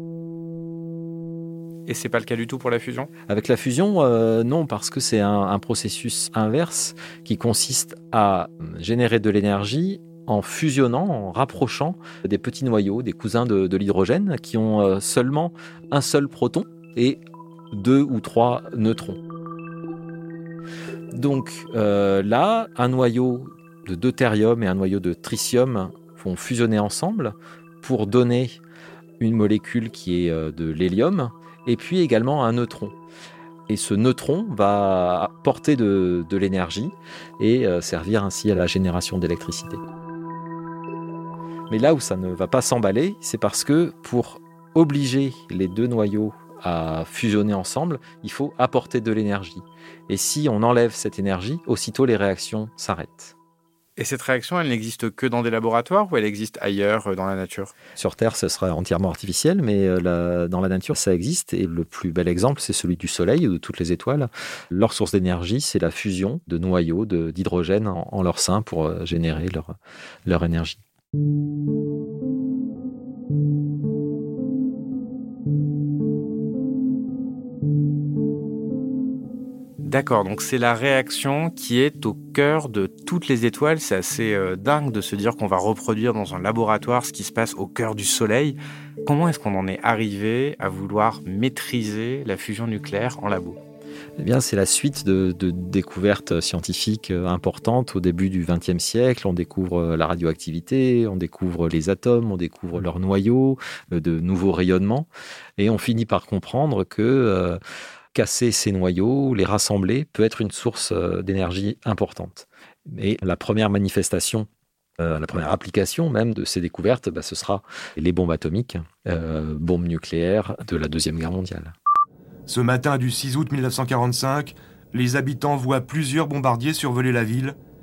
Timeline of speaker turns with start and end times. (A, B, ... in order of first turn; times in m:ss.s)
0:01.9-0:03.1 A
0:03.3-0:17.2 B
0:17.7-0:19.2 B
0:21.1-0:28.6 B
0:29.2-0:33.0 B
0:33.7-0:39.8 B
0:41.7-0:53.3 B
0:54.0-0:57.7 A
0:58.0-1:09.7 B
1:10.2-1:10.8 B
1:19.8-1:33.6 A
1:34.2-1:47.6 B
1:48.1-1:54.5 B
1:55.0-2:01.7 B
2:02.5-2:07.6 C